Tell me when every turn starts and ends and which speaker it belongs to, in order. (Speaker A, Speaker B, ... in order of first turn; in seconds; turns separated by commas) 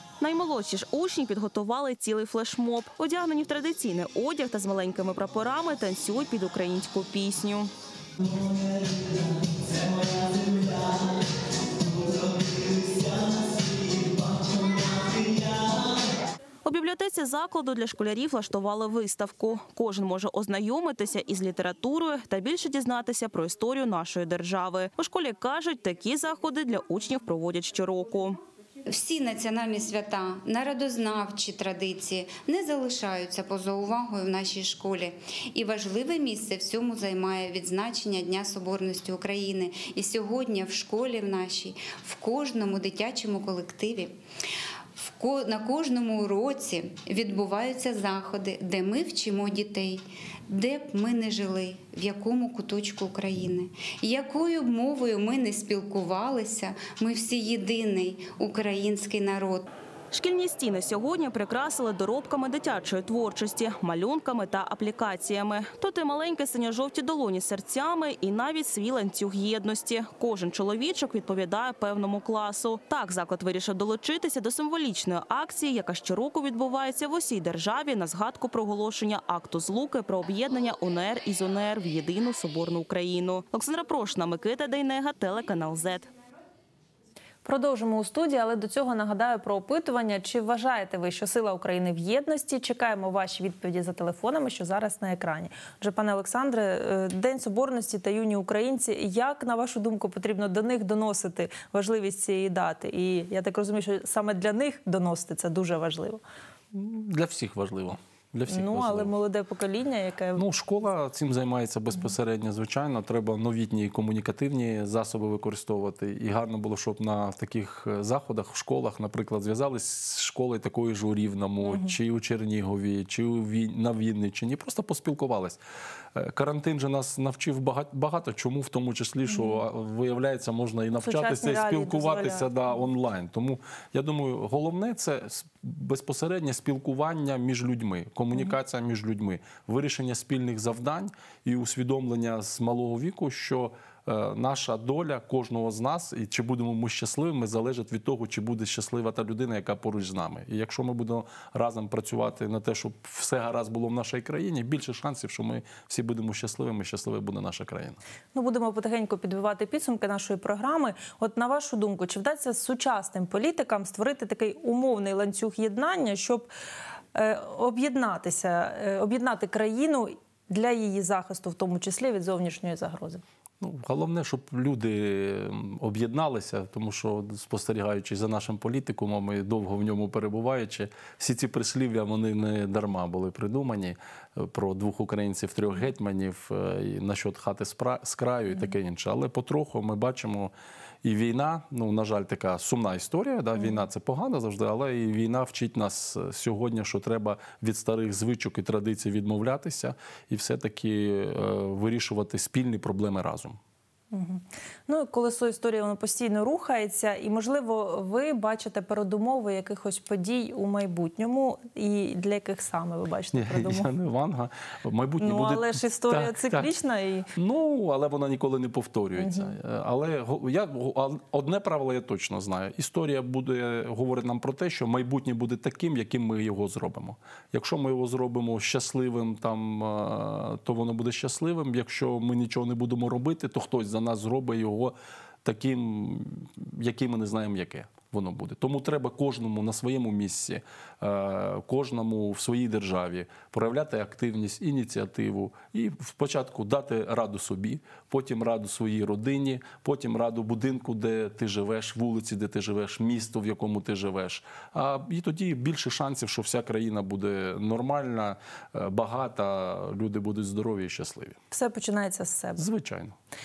Speaker A: 0.2-7.7, Speaker A: 10.5-10.8, Speaker A: 14.7-15.0, Speaker A: 16.6-28.4, Speaker B: 28.9-44.1, Speaker B: 45.0-59.6, Speaker A: 60.1-86.1, Speaker C: 87.4-106.2, Speaker D: 106.7-109.1, Speaker C: 108.5-110.4, Speaker D: 110.3-125.6, Speaker C: 121.6-121.9, Speaker D: 126.1-158.0, Speaker C: 129.3-129.6, Speaker C: 131.0-132.5, Speaker C: 158.3-166.5, Speaker C: 167.1-173.2, Speaker D: 173.6-190.5, Speaker D: 191.0-203.6, Speaker C: 204.1-213.9, Speaker D: 213.3-216.7, Speaker C: 215.2-217.3, Speaker D: 217.3-261.4, Speaker C: 219.2-219.5, Speaker C: 261.5-262.6, Speaker D: 262.6-263.1